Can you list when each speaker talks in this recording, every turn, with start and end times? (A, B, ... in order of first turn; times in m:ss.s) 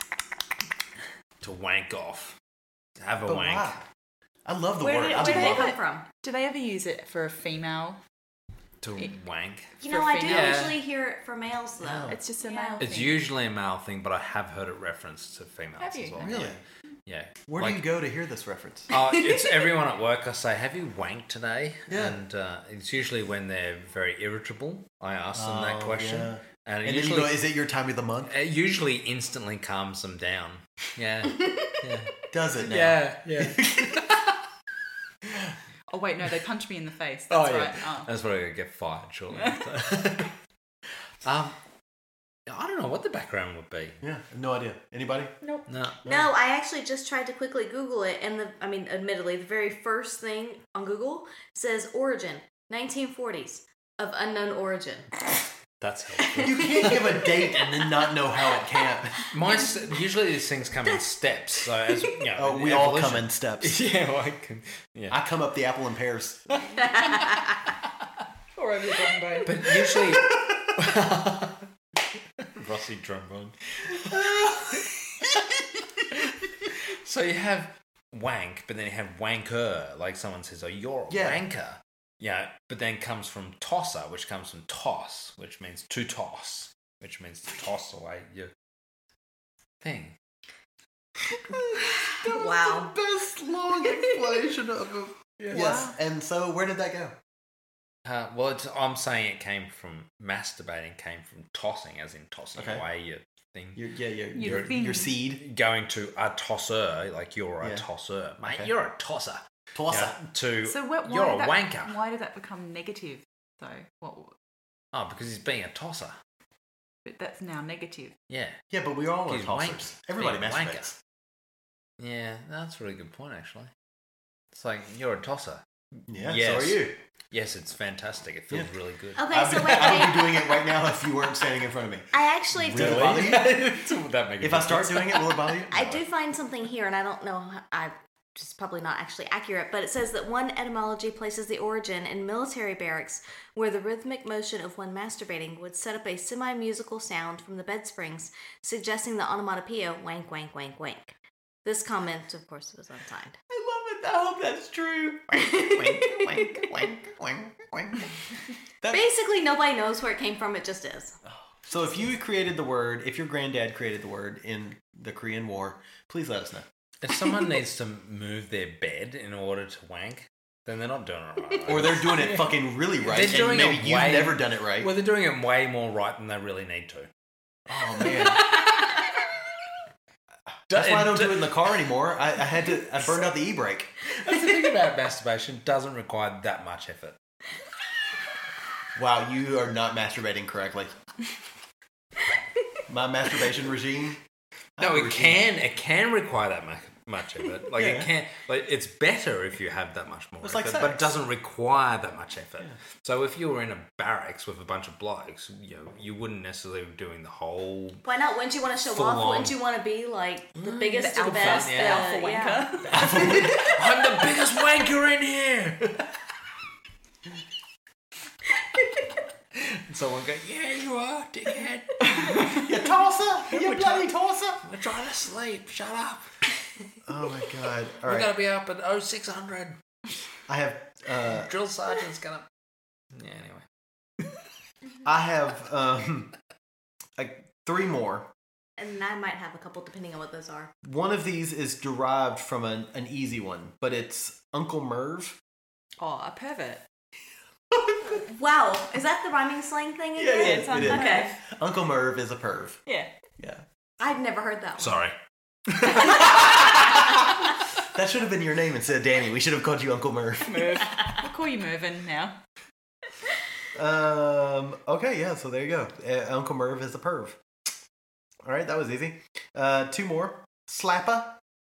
0:01.4-0:02.3 A
0:03.0-0:03.8 A
0:03.2-0:03.8 B
0:04.4-0:05.8 B
0:04.8-0:06.0 C
0:05.1-0:08.0 D
0:08.8-0:10.8 A
0:09.8-0:12.9 C
0:09.8-0:10.7 D
0:11.8-0:12.2 B
0:12.1-0:13.3 D
0:12.8-0:17.8 A
0:15.8-0:16.4 D
0:16.2-0:16.6 B
0:17.5-0:18.9 B
0:18.9-0:27.4 A
0:21.9-0:22.2 B
0:25.3-0:28.3 B
0:28.3-0:34.3 A
0:32.3-0:34.0 B
0:35.9-0:38.1 D
0:37.3-0:40.3 A
0:39.3-0:39.9 D
0:41.2-0:41.6 A
0:42.5-0:44.0 A
0:44.0-0:45.3 B
0:45.7-0:46.0 A
0:46.0-0:55.1 C
0:55.8-0:57.0 A
0:56.4-0:59.3 B
0:59.3-1:05.2 A
1:02.3-1:03.8 B
1:05.1-1:06.5 B
1:08.5-1:09.8 D
1:09.4-1:11.6 A
1:10.1-1:10.6 B
1:12.4-1:14.8 A
1:14.1-1:14.5 B
1:17.0-1:28.5 A
1:21.1-1:21.4 B
1:29.8-1:30.1 A
1:31.5-1:37.2 B
1:32.2-1:32.9 C
1:35.5-1:36.0 D
1:38.0-1:43.8 A
1:42.6-1:42.8 B
1:43.8-1:45.4 B
1:44.3-1:45.1 D
1:44.4-1:52.0 A
1:48.4-1:48.7 B
1:49.7-1:50.1 B
1:50.6-1:54.3 D
1:54.9-1:56.2 A
1:57.0-1:58.1 D
1:58.3-1:58.6 A
1:58.7-2:01.0 B
1:59.2-2:00.9 A
2:02.0-2:03.7 A
2:04.5-2:09.2 A
2:06.1-2:07.0 B
2:09.2-2:10.6 C
2:09.2-2:13.8 B
2:12.1-2:13.3 C
2:12.6-2:16.0 A
2:14.4-2:16.0 B
2:15.7-2:33.4 C
2:33.5-2:38.1 B
2:35.3-2:36.7 C
2:38.9-2:41.1 C
2:41.6-2:46.7 B
2:47.0-2:57.1 A
2:51.6-2:54.9 B
2:57.7-2:58.5 B
3:00.7-3:03.9 B
3:00.7-3:01.6 A
3:04.1-3:07.2 A
3:09.0-3:10.9 B
3:12.9-3:14.2 B
3:14.8-3:15.5 B
3:14.8-3:28.0 A
3:17.7-3:18.1 B
3:20.4-3:21.2 B
3:28.0-3:33.0 C
3:28.8-3:29.6 A
3:30.6-3:32.1 A
3:30.6-3:33.3 D
3:32.9-3:36.1 A
3:32.9-3:33.7 B
3:39.5-3:42.5 A
3:42.5-3:44.6 B
3:43.5-3:44.1 A
3:44.6-3:46.3 A
3:47.0-3:48.3 B
3:48.0-3:49.8 A
3:50.5-3:51.5 B
3:51.2-3:52.4 A
3:53.1-3:53.6 A
3:55.0-3:56.3 B
3:57.2-3:58.3 B
3:58.8-4:00.7 C
4:00.8-4:05.4 B
4:06.0-4:06.8 D
4:08.2-4:11.3 C
4:10.2-4:12.8 B
4:10.2-4:11.4 D
4:12.8-4:13.1 D
4:14.0-4:15.0 C
4:14.8-4:15.1 A
4:15.7-4:16.3 A
4:17.9-4:20.9 B
4:20.4-4:22.4 D
4:23.7-4:27.4 B
4:28.4-4:31.4 B